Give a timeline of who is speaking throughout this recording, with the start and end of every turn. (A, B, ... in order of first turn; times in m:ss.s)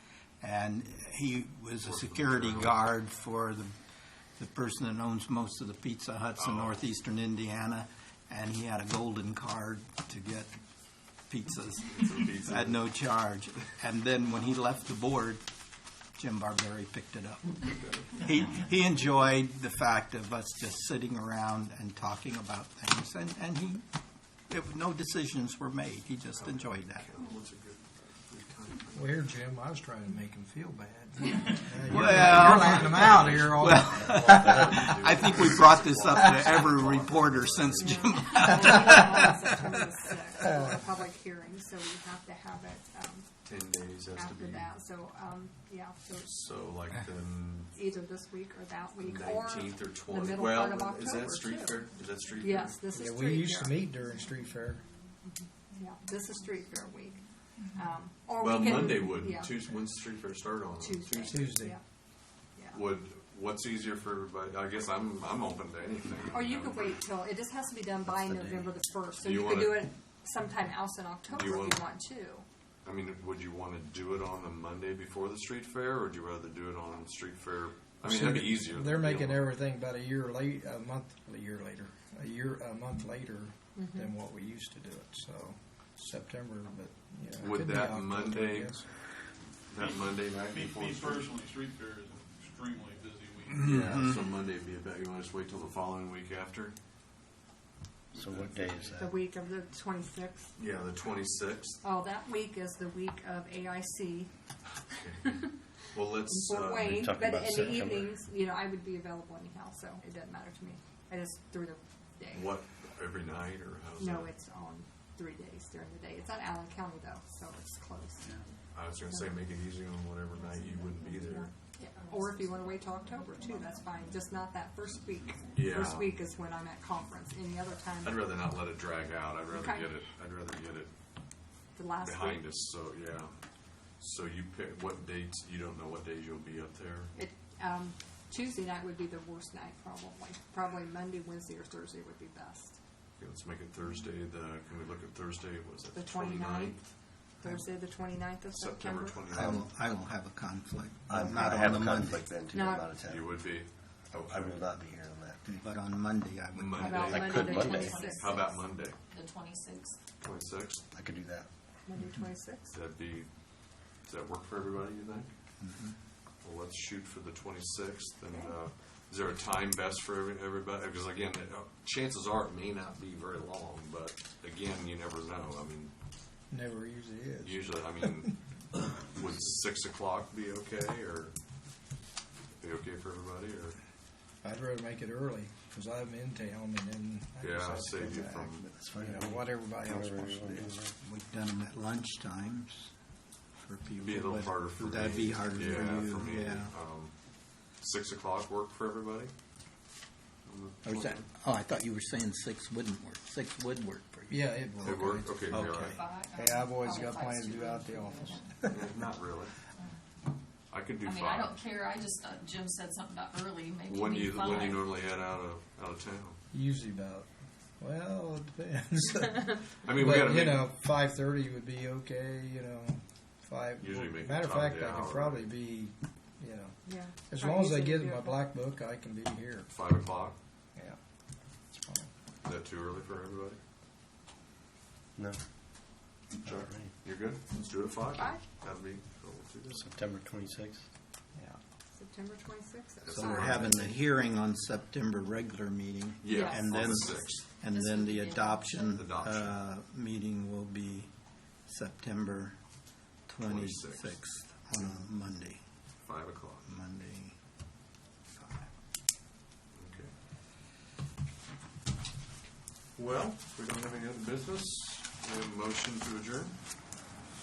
0:00.4-0:03.7 A
0:01.8-0:02.9 B
0:04.4-0:10.5 A
0:06.4-0:06.9 B
0:11.3-0:15.4 A
0:11.9-0:12.9 B
0:16.2-0:23.8 A
0:17.6-0:18.2 B
0:24.5-0:27.1 A
0:26.3-0:29.2 B
0:28.9-0:34.3 C
0:31.8-0:39.5 A
0:31.9-0:38.2 B
0:37.7-0:43.3 D
0:43.4-0:44.7 B
0:44.1-0:46.3 D
0:46.2-0:47.7 B
0:47.7-0:53.8 D
0:49.0-0:52.8 B
0:52.9-0:54.8 C
0:55.2-0:57.2 D
0:57.7-0:59.6 D
0:58.4-1:01.5 B
1:00.8-1:01.8 D
1:01.3-1:01.8 C
1:02.5-1:02.8 D
1:02.7-1:07.0 B
1:06.3-1:12.4 D
1:08.1-1:08.7 E
1:09.2-1:09.9 B
1:11.3-1:11.8 B
1:12.8-1:19.5 B
1:18.0-1:28.9 C
1:23.8-1:24.1 D
1:27.4-1:28.9 B
1:29.7-1:31.3 B
1:30.5-1:33.8 F
1:33.6-1:36.7 B
1:38.1-1:39.1 E
1:38.2-1:38.7 B
1:39.0-1:40.5 D
1:40.6-1:41.8 B
1:41.8-1:44.3 D
1:45.0-1:47.0 B
1:45.2-1:45.5 D
1:46.2-1:52.5 D
1:46.8-1:48.2 E
1:52.3-1:54.3 B
1:54.0-1:58.4 D
1:58.7-2:01.5 B
2:01.2-2:08.3 D
2:02.0-2:03.7 G
2:05.5-2:06.1 B
2:08.0-2:10.9 B
2:09.5-2:09.9 D
2:11.8-2:12.4 D
2:12.0-2:13.3 B
2:14.0-2:17.1 B
2:17.1-2:22.8 D
2:23.2-2:26.8 B
2:25.9-2:26.8 D
2:27.4-2:29.3 D
2:28.5-2:29.7 B
2:29.3-2:32.2 A
2:31.1-2:33.4 E
2:32.5-2:32.9 D
2:33.0-2:34.7 B
2:34.2-2:35.6 E
2:35.5-2:37.3 A
2:36.5-2:39.0 B
2:36.8-2:38.4 D
2:37.0-2:38.0 E
2:37.2-2:40.0 G
2:40.2-2:40.8 B
2:40.9-2:41.5 E
2:41.8-2:42.7 D
2:42.7-2:43.3 B
2:44.0-2:45.3 B
2:45.6-2:46.0 A
2:46.4-2:55.9 B
2:56.5-2:58.3 C
2:57.4-2:58.4 B
2:59.0-3:01.3 B
3:02.6-3:03.8 B
3:04.4-3:10.7 C
3:07.4-3:08.6 B
3:08.7-3:10.9 E
3:11.0-3:12.9 A
3:13.6-3:16.7 A
3:14.0-3:17.1 B
3:17.8-3:19.3 B
3:20.4-3:21.2 B
3:20.8-3:26.0 A
3:24.3-3:25.4 C
3:24.8-3:26.0 B
3:25.5-3:28.5 G
3:26.3-3:28.9 C
3:28.6-3:29.5 B
3:30.7-3:31.6 B
3:31.0-3:34.9 G
3:33.9-3:36.4 B
3:36.5-3:37.3 C
3:37.8-3:49.7 C
3:39.8-3:40.7 B
3:43.8-3:45.5 B
3:46.8-3:48.4 D
3:49.7-3:50.4 B
3:51.7-3:52.1 C
3:52.4-3:53.6 B
3:55.1-3:55.4 E
3:56.4-3:59.8 B
3:56.4-3:56.9 E
3:58.1-3:58.4 D
3:59.7-4:00.9 E
4:01.9-4:03.6 D
4:03.0-4:03.9 B
4:03.1-4:03.9 E
4:03.3-4:11.1 A
4:06.2-4:07.4 B
4:06.3-4:06.7 D
4:06.8-4:09.0 G
4:08.9-4:09.6 B
4:11.7-4:12.6 A
4:13.3-4:15.6 A
4:13.4-4:15.0 B
4:16.0-4:16.7 B
4:16.7-4:17.4 A
4:18.4-4:18.7 A
4:19.7-4:20.1 B
4:23.0-4:26.6 B